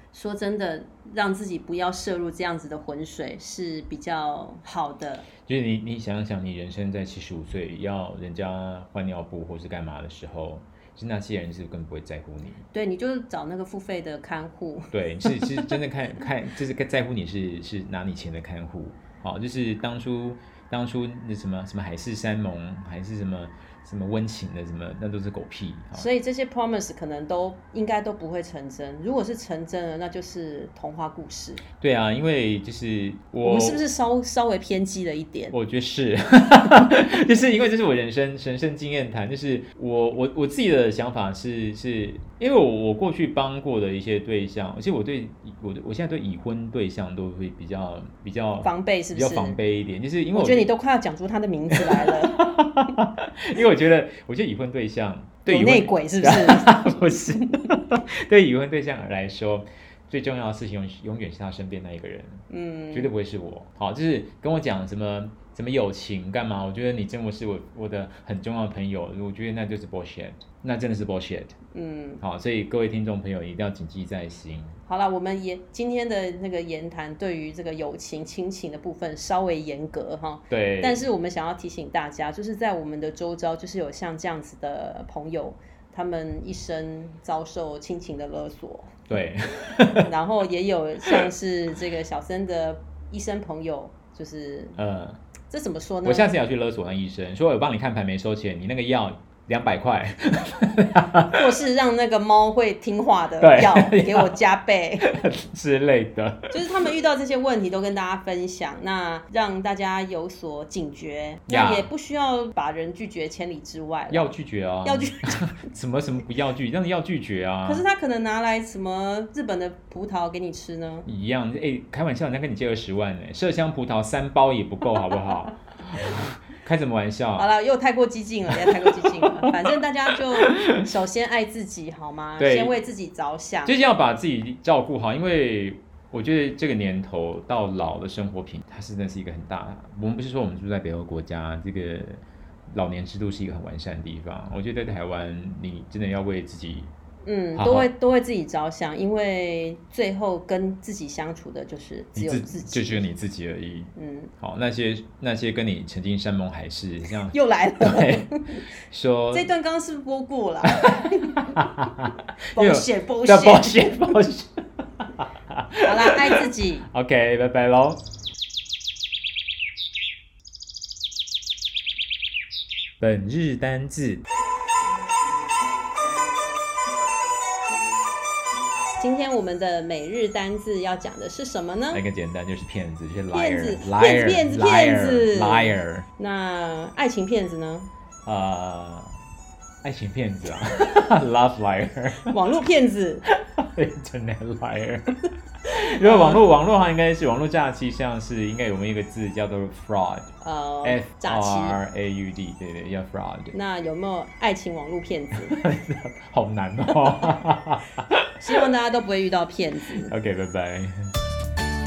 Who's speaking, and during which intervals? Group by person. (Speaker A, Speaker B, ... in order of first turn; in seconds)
Speaker A: 0.1-5.3, 12.7-15.8, 25.9-31.6, 33.4-35.5, 48.6-49.6, 50.3-52.4, 55.5-57.6, 62.5-63.1, 71.7-72.2, 74.9-88.9, 90.0-94.8, 95.5-96.3, 101.3-105.1, 106.5-114.3, 114.8-115.4, 117.6-121.1, 127.3-133.7, 147.2-153.1, 153.9-154.3, 157.3-158.6, 159.3-161.6, 162.5-164.2, 165.8-166.9, 179.0-182.0, 183.3-187.9, 192.2-193.2, 196.0-196.4, 200.4-201.8, 203.5-205.6, 208.4-210.1
Speaker B: 5.5-12.6, 14.9-26.1, 31.8-33.8, 35.5-50.7, 51.7-62.4, 62.9-71.5, 72.2-74.8, 80.5-81.0, 89.1-90.1, 94.8-95.2, 96.0-101.4, 103.4-104.3, 105.0-106.6, 111.5-111.9, 114.1-117.8, 121.0-127.5, 128.5-129.6, 130.1-130.8, 132.4-132.7, 133.6-146.9, 147.6-147.9, 152.2-158.4, 158.9-159.5, 160.7-168.0, 173.0-174.2, 181.9-186.1, 188.2-189.2, 189.8-192.3, 193.3-200.3, 200.8-203.5, 205.4-208.3, 210.1-211.1